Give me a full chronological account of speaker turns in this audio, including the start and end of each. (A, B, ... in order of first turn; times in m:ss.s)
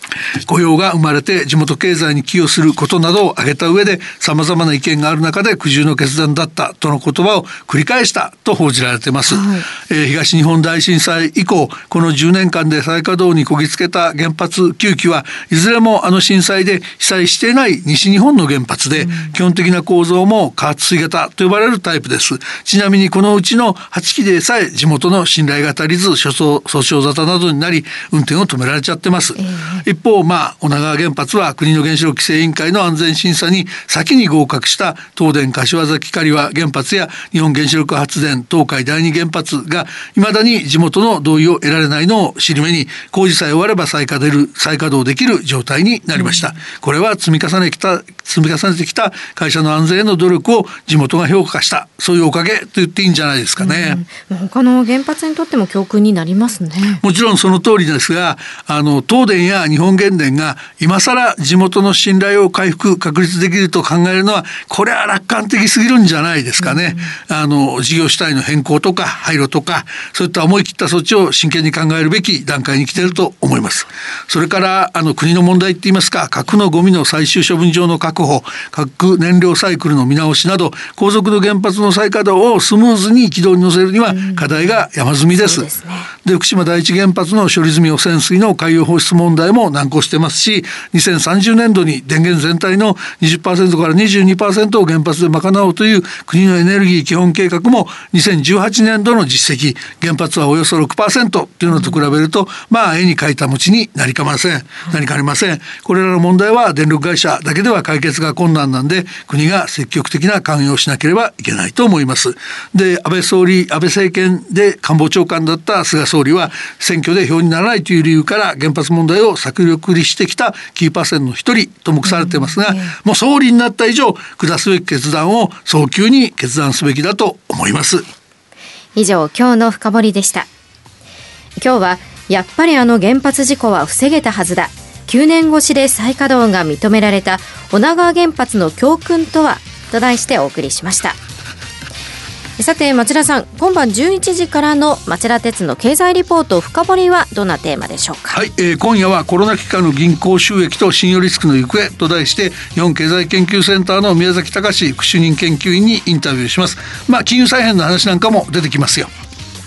0:00.4-0:54.0 A
0:09.3-0:09.6 B
0:29.4-0:29.8 B
0:46.2-0:46.4 B
0:53.6-0:57.0 B
0:57.0-1:25.7 A
1:06.6-1:07.1 B
1:24.1-1:24.4 B
1:25.4-1:26.1 B
1:26.2-2:08.0 A
2:08.9-2:10.5 B
2:11.6-2:21.2 B
2:22.6-2:28.4 B
2:28.3-2:39.1 A